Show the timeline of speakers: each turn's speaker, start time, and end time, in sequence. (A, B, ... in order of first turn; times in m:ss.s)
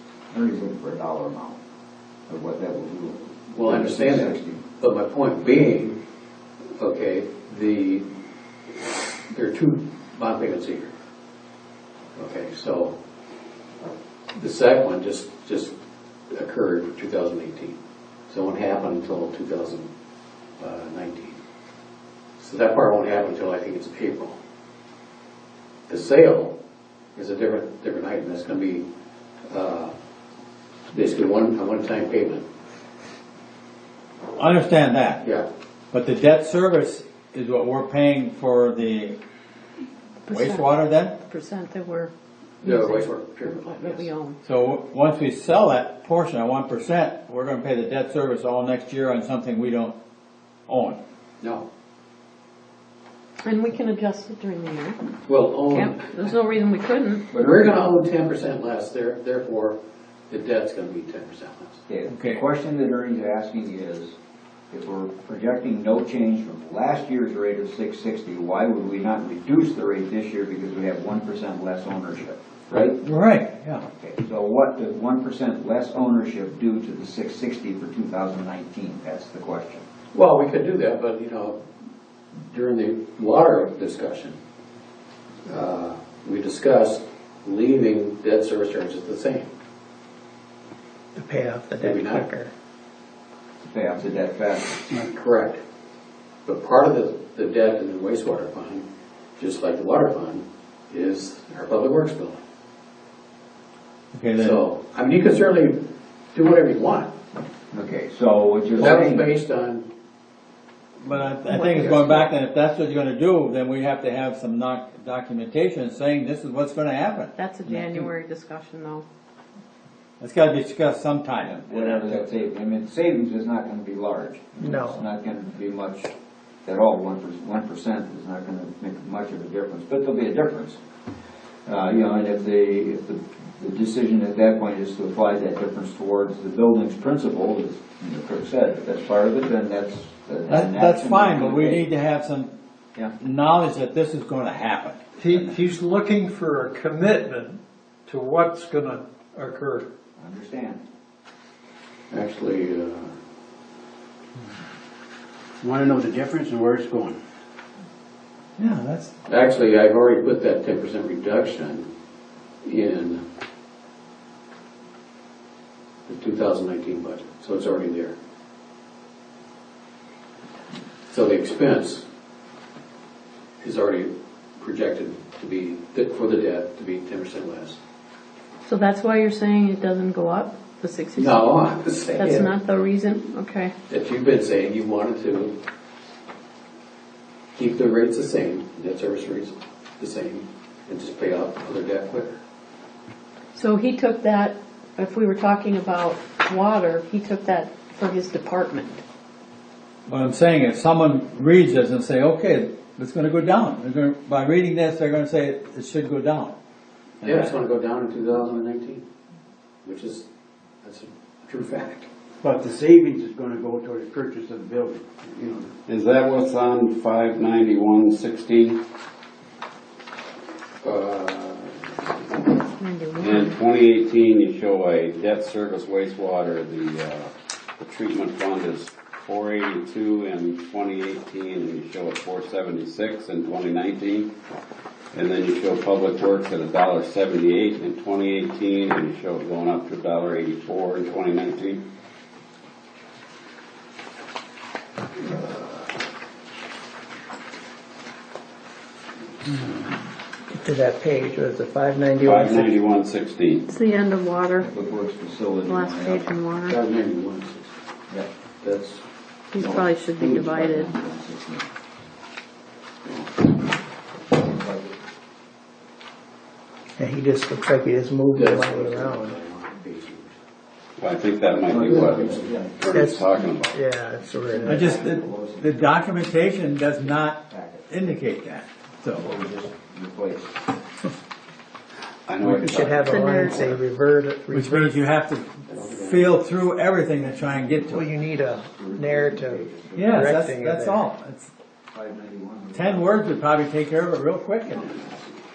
0:00.3-0:01.6 A
0:02.3-0:04.6 A
0:03.5-0:06.0 B
0:06.8-0:08.1 B
0:09.3-0:10.9 B
0:12.2-0:13.0 B
0:14.4-0:15.8 B
0:16.3-0:17.8 B
0:18.3-0:19.9 B
0:20.6-0:21.4 B
0:22.4-0:24.4 B
0:25.9-0:26.6 B
0:27.1-0:28.9 B
0:29.5-0:29.9 B
0:30.9-0:32.4 B
0:34.4-0:35.2 C
0:35.2-0:35.5 B
0:35.9-0:39.2 C
0:40.3-0:44.4 D
0:40.3-0:41.2 C
0:42.6-0:44.1 B
0:44.4-0:50.0 C
0:50.7-0:51.0 C
0:51.4-0:51.6 B
0:53.4-0:55.0 D
0:55.2-0:56.1 B
0:55.7-0:57.3 D
0:57.3-0:59.8 B
0:57.3-0:57.7 A
1:00.3-1:01.8 B
1:01.9-1:04.2 A
1:02.1-1:02.4 C
1:04.7-1:13.0 A
1:12.7-1:13.8 C
1:13.9-1:19.8 A
1:20.1-1:21.6 B
1:22.5-1:24.4 B
1:25.4-1:29.5 B
1:31.1-1:32.5 E
1:31.8-1:32.3 B
1:33.6-1:34.9 A
1:34.9-1:35.6 B
1:36.4-1:38.8 B
1:39.4-1:42.4 B
1:44.1-1:44.6 C
1:44.4-1:45.8 B
1:46.3-1:47.1 B
1:47.7-1:49.3 A
1:48.8-1:49.9 B
1:51.0-1:58.1 C
1:51.5-1:52.3 D
1:57.4-1:59.0 D
2:00.2-2:02.2 C
2:01.4-2:06.1 A
2:04.6-2:05.0 E
2:06.6-2:10.8 A
2:11.6-2:21.8 A
2:20.5-2:22.5 C
2:23.2-2:25.6 C
2:25.4-2:27.6 F
2:28.2-2:29.3 F
2:30.2-2:30.8 A
2:32.1-2:33.1 B
2:35.6-2:37.2 G
2:38.6-2:39.1 C
2:39.3-2:41.9 B
2:42.6-2:43.2 B
2:46.1-2:48.1 B
2:51.1-2:52.0 B
2:53.6-2:57.8 B
2:58.6-3:01.4 D
3:01.2-3:02.5 B
3:02.2-3:03.7 D
3:03.9-3:05.5 B
3:07.6-3:12.4 B
3:13.5-3:19.0 D
3:20.1-3:26.5 C
3:27.2-3:27.5 C
3:27.2-3:29.0 B
3:29.8-3:30.3 B
3:30.8-3:32.1 B
3:32.4-3:35.7 G
3:35.8-3:38.8 H
3:40.8-3:42.0 B
3:42.4-3:43.6 D
3:43.2-3:54.3 H
3:55.1-4:01.8 H
4:10.5-4:12.7 E
4:12.2-4:13.6 H
4:13.7-4:14.7 D
4:14.6-4:16.3 A
4:15.6-4:16.8 D
4:16.7-4:17.7 B
4:18.6-4:19.0 B
4:19.5-4:20.9 D
4:19.6-4:21.7 A
4:23.1-4:23.5 A
4:24.3-4:24.9 A
4:27.0-4:29.4 E
4:28.3-4:30.4 B
4:31.0-4:33.8 H
4:31.7-4:33.0 A
4:31.8-4:32.4 B
4:32.9-4:34.9 E
4:34.2-4:38.1 A
4:34.7-4:39.3 C
4:39.1-4:40.6 A
4:42.2-4:43.8 H
4:42.4-4:45.0 E
4:43.0-4:43.7 D
4:44.5-4:48.1 C
4:45.7-4:46.3 B
4:47.2-4:50.5 A
4:47.9-4:51.1 E
4:49.9-4:51.5 C
4:51.9-4:53.2 A
4:52.7-4:55.0 C